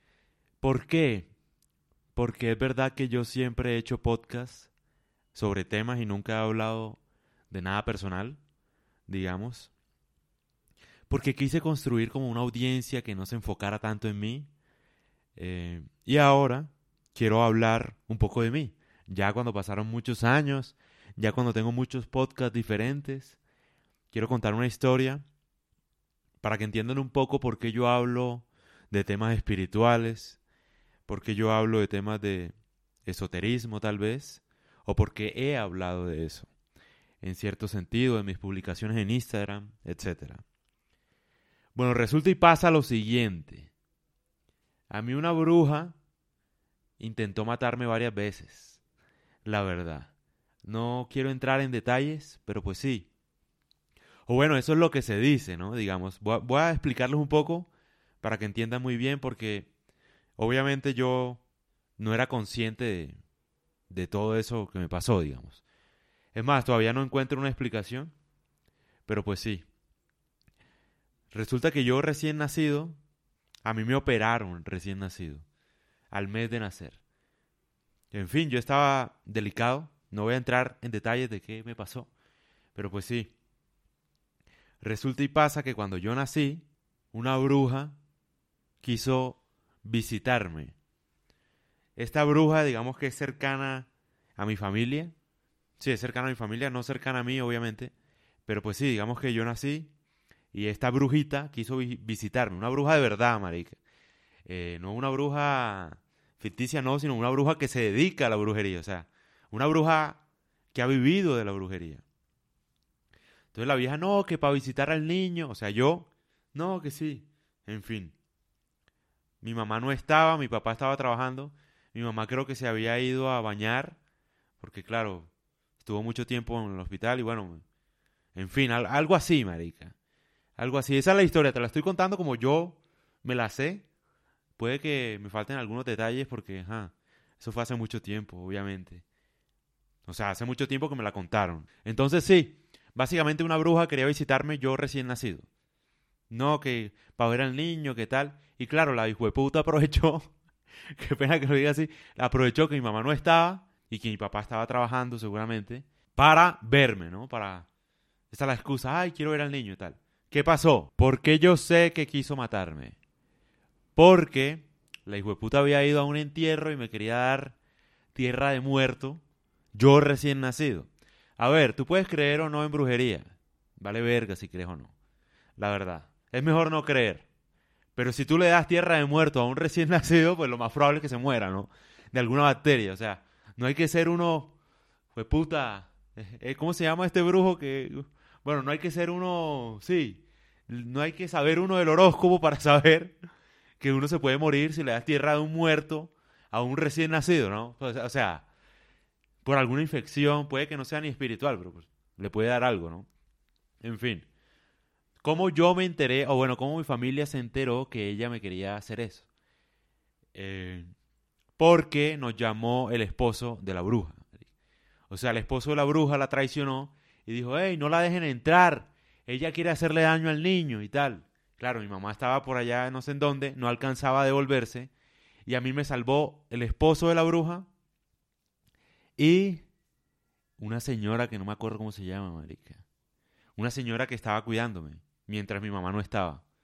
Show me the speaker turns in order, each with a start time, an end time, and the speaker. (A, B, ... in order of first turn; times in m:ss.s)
0:00.6-0:01.3 A
0:02.2-0:04.7 A
0:05.3-0:08.4 A
0:09.1-0:09.7 A
0:11.1-0:14.5 A
0:15.4-0:23.4 A
0:24.1-0:25.2 A
0:26.4-0:30.4 A
0:31.1-0:36.5 A
0:37.2-0:40.4 A
0:41.8-0:43.7 A
0:44.9-0:46.0 A
0:47.0-0:48.8 A
0:49.4-0:50.1 A
0:50.6-0:53.1 A
0:54.3-0:57.7 A
0:58.2-0:59.7 A
1:00.4-1:01.4 A
1:02.0-1:03.2 A
1:03.9-1:05.6 A
1:06.3-1:08.1 A
1:09.1-1:09.7 A
1:11.3-1:13.0 A
1:13.6-1:15.4 A
1:16.1-1:17.0 A
1:18.1-1:22.1 A
1:22.8-1:23.3 A
1:24.8-1:28.0 A
1:28.8-1:30.8 A
1:32.0-1:35.1 A
1:35.8-1:37.9 A
1:38.5-1:39.9 A
1:40.5-1:43.8 A
1:44.5-1:50.2 A
1:50.7-1:52.0 A
1:53.5-1:58.2 A
1:59.4-2:04.0 A
2:04.6-2:07.6 A
2:08.4-2:10.0 A
2:10.6-2:13.9 A
2:14.6-2:19.0 A
2:20.1-2:25.5 A
2:26.3-2:30.3 A
2:30.9-2:37.7 A
2:38.3-2:43.0 A
2:44.0-2:47.6 A
2:48.1-2:49.2 A
2:49.7-2:54.9 A
2:55.6-2:57.3 A
2:58.0-3:04.5 A
3:05.1-3:13.2 A
3:13.8-3:18.5 A
3:19.4-3:23.1 A
3:23.8-3:24.3 A
3:25.2-3:29.3 A
3:30.3-3:30.9 A
3:31.6-3:34.3 A
3:35.1-3:44.9 A
3:45.5-3:47.7 A
3:49.2-3:49.6 A
3:50.6-3:52.8 A
3:53.6-3:56.4 A